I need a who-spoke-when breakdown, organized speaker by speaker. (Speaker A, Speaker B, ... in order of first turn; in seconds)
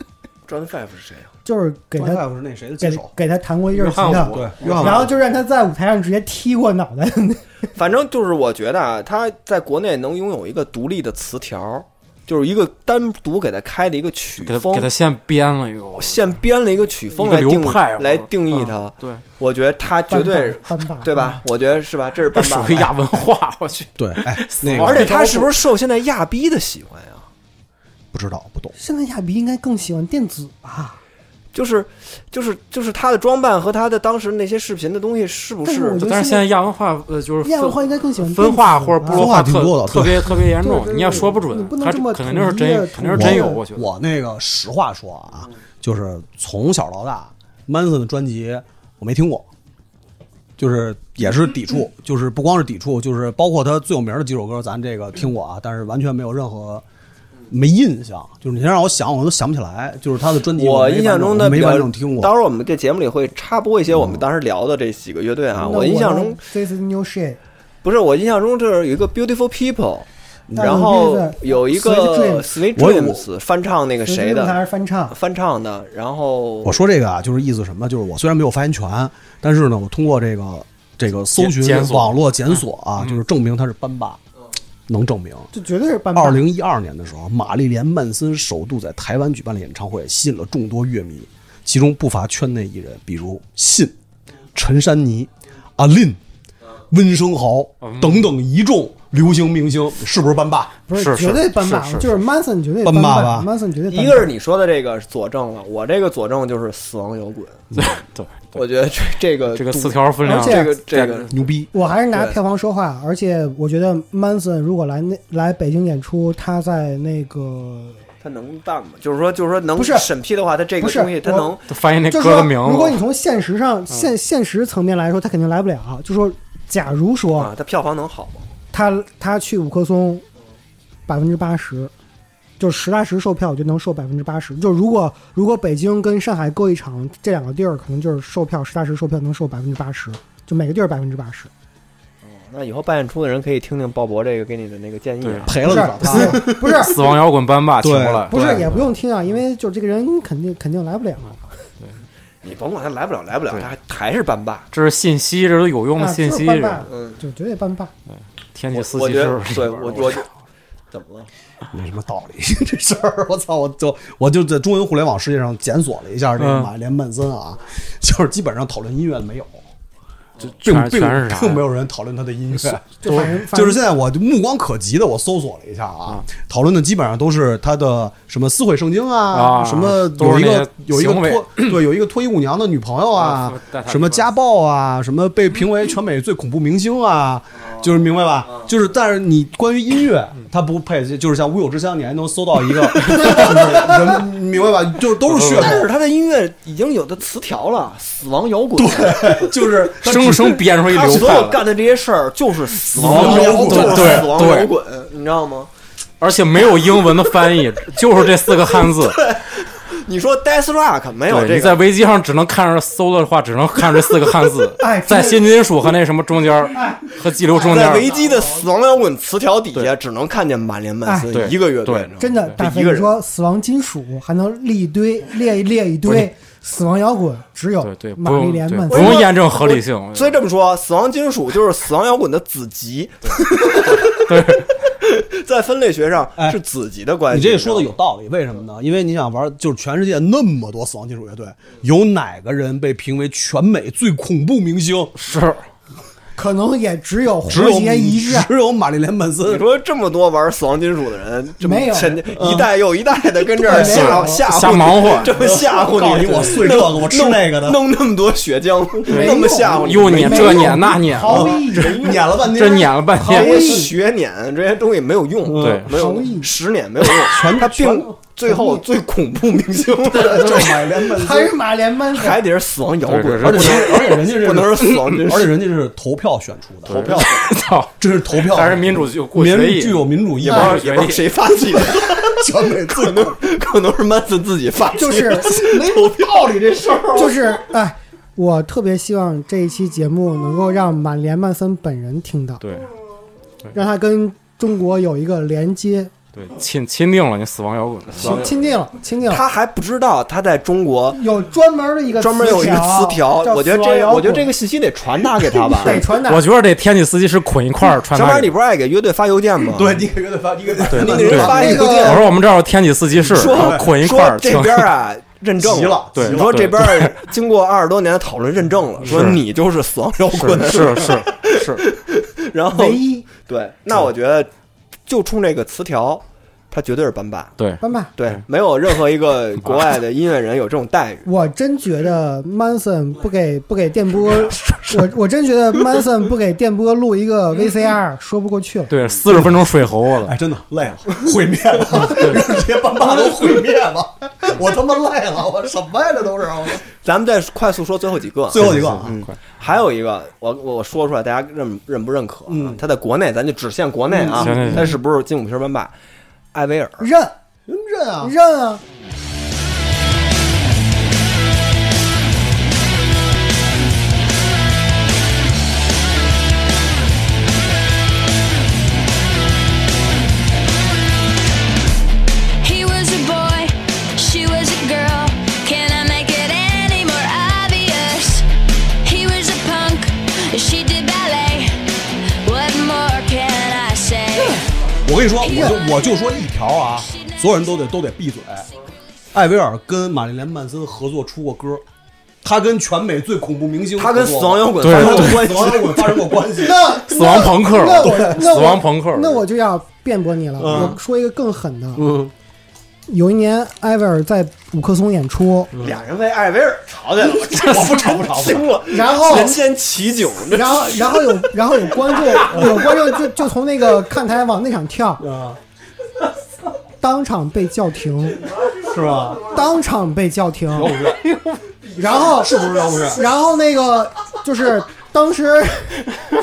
Speaker A: 0.5-1.3, 7.7-14.9, 15.9-22.9, 24.7-27.3, 31.5-36.0, 60.5-66.4, 67.8-76.8, 103.9-107.7, 108.5-111.4, 112.1-112.4, 118.2-121.7, 127.4-128.5, 142.2-145.9, 152.4-154.7, 156.9-157.2, 158.7-160.3, 160.9-161.3, 193.0-194.0, 195.3-199.5, 200.8-205.7, 208.8-211.8, 217.5-223.2, 228.9-237.9, 249.4-262.3, 263.3-270.9, 272.1-275.5, 276.9-277.4, 280.4-287.6, 299.3-301.2, 302.1-306.1, 308.1-310.0, 310.8-312.3, 313.2-324.5, 325.1-327.5, 328.2-331.2, 334.6-334.9, 346.9-355.9, 356.5-357.1, 393.9-396.2, 400.6-400.9, 405.8-412.6
Speaker B: 1.4-2.2, 2.8-7.5, 20.1-21.4, 28.8-31.0, 35.6-36.5, 37.4-39.3, 40.6-43.6, 65.6-67.4, 70.6-72.5, 74.0-75.1, 85.5-86.5, 100.9-104.3, 110.2-110.7, 111.7-118.0, 119.8-120.1, 120.8-121.5, 122.1-127.5, 128.7-130.2, 131.1-131.9, 132.6-141.5, 145.6-146.9, 148.3-151.4, 156.0-157.9, 173.0-173.8, 214.8-215.6, 216.7-218.0, 221.0-221.3, 222.2-229.3, 246.3-248.5, 251.6-252.2, 253.6-254.4, 259.1-262.0, 263.1-263.9, 265.9-266.5, 268.5-268.8, 271.1-272.4, 284.9-285.6, 287.1-292.6, 293.7-296.1, 298.2-299.4, 301.1-304.5, 305.5-306.4, 311.4-312.3, 322.7-323.3, 327.8-328.1, 331.2-338.9, 357.0-357.3, 358.2-358.8, 396.5-402.1, 403.1-405.7, 408.9-409.6, 410.5-415.2, 417.0-418.4, 419.5-420.9, 422.0-426.1
Speaker C: 1.9-3.1, 4.3-5.1, 24.0-25.1, 28.1-28.7, 39.1-40.4, 43.1-49.5, 50.6-56.8, 57.5-62.3, 63.9-64.2, 70.5-70.9, 72.7-73.2, 76.6-84.2, 84.9-85.5, 86.1-94.0, 94.5-96.2, 96.9-100.8, 102.8-103.5, 111.3-111.7, 145.4-146.8, 147.8-148.6, 161.7-169.6, 170.6-195.9, 198.7-200.7, 202.9-204.4, 237.3-245.1, 247.5-249.7, 252.2-252.7, 253.6-254.3, 255.1-257.8, 260.1-263.1, 265.4-265.9, 267.0-268.2, 270.1-271.5, 273.4-277.4, 278.0-280.8, 281.8-283.5, 285.4-287.2, 309.7-312.2, 313.3-313.9, 315.6-316.8, 319.0-319.3, 320.3-321.2, 339.3-346.8, 348.5-349.2, 352.5-352.8, 354.1-354.9, 357.7-358.3, 385.0-388.7, 389.3-391.8, 392.4-398.6, 400.6-401.0, 402.0-402.3, 405.7-406.0, 407.1-408.7, 412.4-412.9, 415.2-415.6, 418.8-419.5, 420.7-421.2, 422.0-423.3
Speaker D: 3.7-5.1, 14.4-16.3, 17.1-19.2, 22.3-25.5, 36.0-43.9, 81.2-83.2, 97.8-98.3, 100.9-102.2, 107.7-108.5, 109.5-111.4, 121.7-123.0, 145.2-145.5, 146.0-148.9, 154.7-156.9, 158.5-160.3, 166.4-166.7, 170.4-171.6, 173.1-173.3, 179.3-181.8, 183.1-184.3, 195.3-195.8, 200.0-201.6, 203.0-204.7, 206.2-209.3, 211.3-218.2, 221.3-222.5, 227.8-230.4, 234.0-234.7, 245.2-245.7, 253.7-255.4, 259.1-263.8, 265.5-265.9, 273.0-274.2, 276.9-281.4, 292.6-292.9, 296.3-298.5, 305.8-308.5, 310.9-314.9, 316.1-317.1, 319.0-319.4, 320.3-321.8, 327.6-328.4, 338.9-340.3, 342.0-342.5, 348.6-349.3, 354.3-354.9, 394.8-395.5, 397.1-399.4, 420.9-421.6
Speaker E: 372.6-378.5, 379.0-384.7, 385.4-385.8